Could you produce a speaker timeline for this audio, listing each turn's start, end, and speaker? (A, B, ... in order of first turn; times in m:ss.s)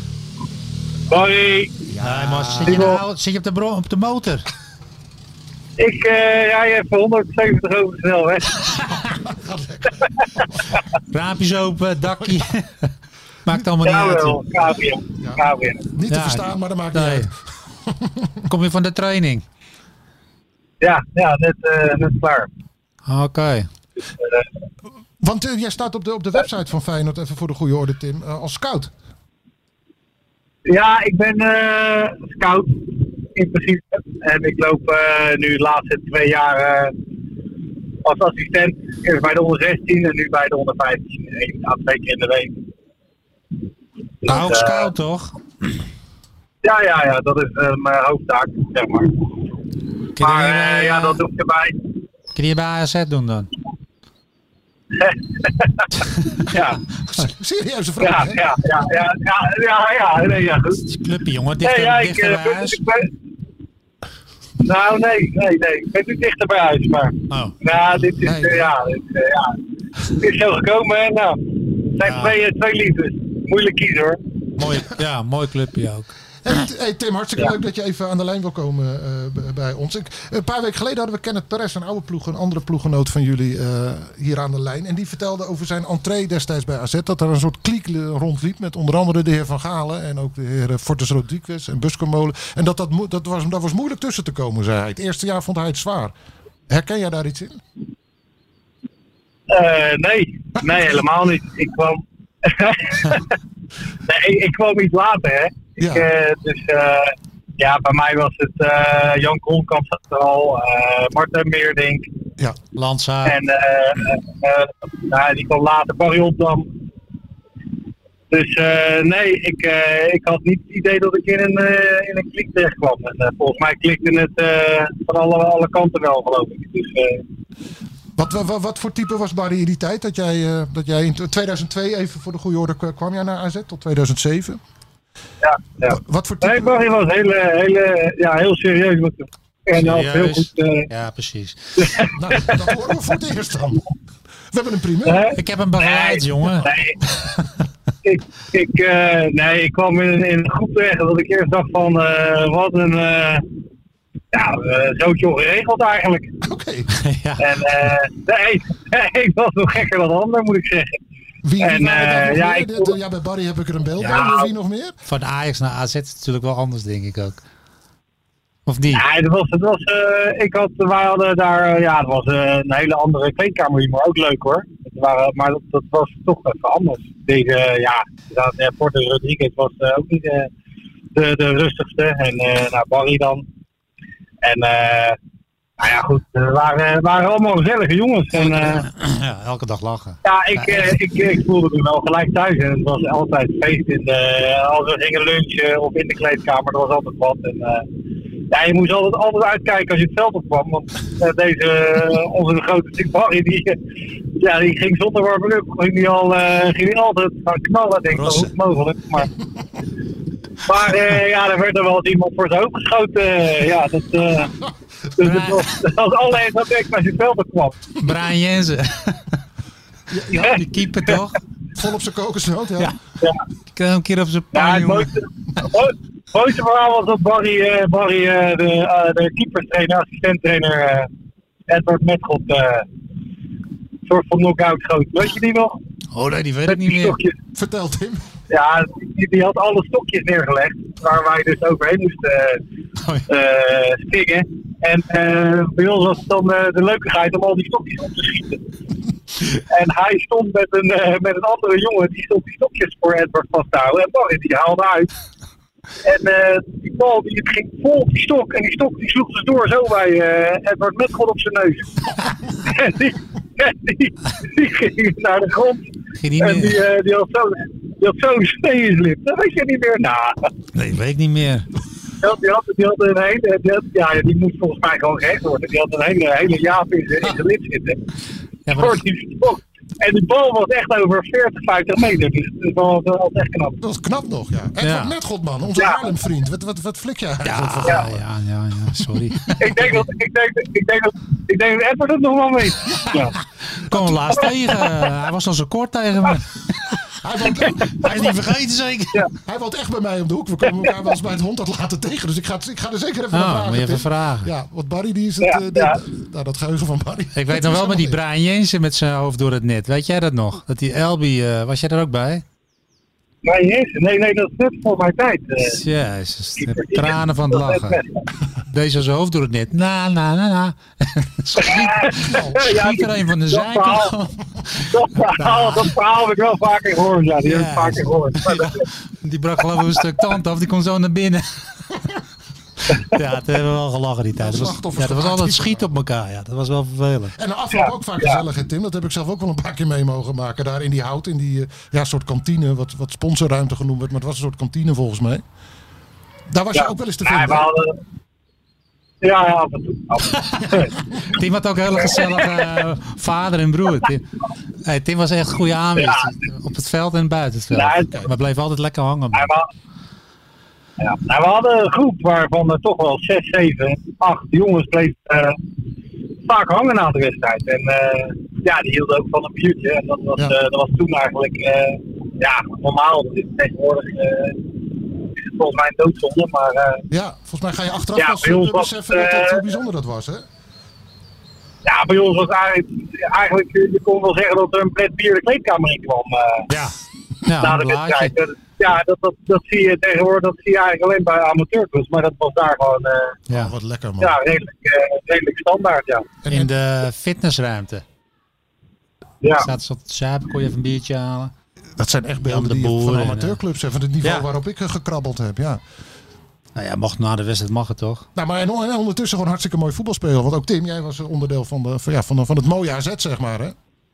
0:01.1-0:01.9 A
0:01.9-0:03.0 B
0:02.0-0:04.5 C
0:02.7-0:03.0 A
0:05.8-0:08.9 A
0:09.0-0:10.0 B
0:11.1-0:12.9 C
0:13.4-0:14.4 C
0:13.8-0:15.8 A
0:15.2-0:18.5 B
0:16.1-0:17.3 C
0:18.4-0:19.4 C
0:20.8-0:22.5 A
0:23.0-0:23.7 C
0:24.1-0:24.5 A
0:25.2-0:28.9 B
0:30.6-0:36.9 A
0:38.0-0:42.6 A
0:44.2-0:44.9 A
0:44.2-0:45.3 C
0:46.6-0:49.2 A
0:50.2-0:51.2 C
0:50.2-0:51.8 A
0:52.3-0:53.5 C
0:55.0-0:56.8 A
0:56.2-0:56.5 C
0:57.1-0:58.5 B
0:58.0-1:00.8 A
1:00.8-1:02.8 C
1:01.6-1:03.1 A
1:04.6-1:09.6 A
1:07.3-1:07.6 C
1:08.2-1:08.7 B
1:10.2-1:14.2 A
1:12.0-1:12.4 C
1:14.6-1:16.1 C
1:16.4-1:36.1 B
1:36.7-1:37.6 B
1:39.5-1:43.3 A
1:40.6-1:41.0 B
1:44.1-1:52.0 A
1:45.8-1:46.1 B
1:52.8-1:53.4 C
1:53.2-1:56.7 A
1:58.3-2:07.2 A
2:08.1-2:14.6 B
2:15.4-2:20.9 A
2:15.8-2:16.8 B
2:19.7-2:22.1 C
2:21.8-2:22.6 A
2:22.2-2:23.8 B
2:24.5-2:25.3 B
2:25.0-2:27.0 A
2:25.3-2:27.5 C
2:28.0-2:33.4 A
2:34.3-2:36.3 A
2:36.4-2:36.9 B
2:36.9-2:37.9 C
2:37.4-2:41.0 A
2:41.4-2:44.9 B
2:41.6-2:42.9 A
2:44.0-2:44.3 C
2:44.0-2:44.5 A
2:45.0-2:47.4 C
2:48.6-2:49.0 C
2:48.9-3:00.5 A
3:01.1-3:03.4 A
3:04.4-3:05.2 A
3:05.8-3:08.8 A
3:08.3-3:11.0 C
3:10.2-3:17.8 A
3:18.5-3:23.8 A
3:24.4-3:29.3 A
3:28.1-3:28.5 C
3:30.6-3:34.5 A
3:35.2-3:37.8 A
3:35.2-3:35.7 C
3:38.0-3:39.3 C
3:40.1-3:40.5 B
3:40.2-3:41.4 C
3:41.7-3:42.9 B
3:43.7-3:45.1 C
3:44.5-3:51.1 A
3:51.7-3:52.8 A
3:54.0-3:55.8 A
3:56.1-3:57.2 C
3:56.7-3:57.4 A
3:57.5-3:58.2 B
3:58.5-4:02.6 A
4:03.3-4:08.6 A
4:09.5-4:15.1 A
4:16.0-4:30.5 A
4:26.2-4:26.8 C
4:30.7-4:31.7 C
4:32.2-4:38.0 A
4:38.6-4:39.0 C
4:38.7-4:43.8 A
4:43.8-4:48.2 B
4:44.8-4:45.1 C
4:45.8-4:46.1 A
4:47.4-4:50.1 C
4:49.6-4:53.4 A
4:53.7-4:56.9 C
4:57.2-4:58.4 B
4:57.9-4:59.3 C
4:59.3-5:08.2 B
5:03.3-5:04.5 C
5:05.4-5:06.0 A
5:07.3-5:12.4 C
5:13.4-5:15.8 A
5:15.6-5:18.0 C
5:16.6-5:18.2 A
5:18.6-5:25.9 C
5:21.6-5:24.1 A
5:22.2-5:22.7 B
5:24.8-5:28.9 A
5:27.4-5:31.5 C
5:32.9-5:37.4 C
5:34.4-5:35.9 B
5:37.4-5:45.4 B
5:37.7-5:38.4 A
5:46.5-5:47.7 B
5:46.7-5:48.0 A
5:49.2-5:50.9 A
5:50.3-5:54.3 C
5:51.9-5:52.7 A
5:54.8-5:59.5 C
5:56.0-5:56.3 A
5:57.7-5:58.2 A
5:59.3-5:59.7 A
6:01.0-6:05.6 A
6:06.4-6:14.6 A
6:15.3-6:17.0 A
6:17.1-6:20.4 B
6:18.2-6:19.6 A
6:21.8-6:26.6 A
6:26.7-6:28.3 C
6:27.6-6:33.4 A
6:33.5-6:34.4 B
6:34.2-6:36.3 A
6:36.4-6:36.7 B
6:36.5-6:38.0 C
6:39.4-6:39.7 A
6:39.6-6:41.5 C
6:42.0-6:45.8 B
6:42.5-6:43.6 C
6:44.2-6:44.5 C
6:46.7-6:48.3 C
6:48.3-6:53.8 B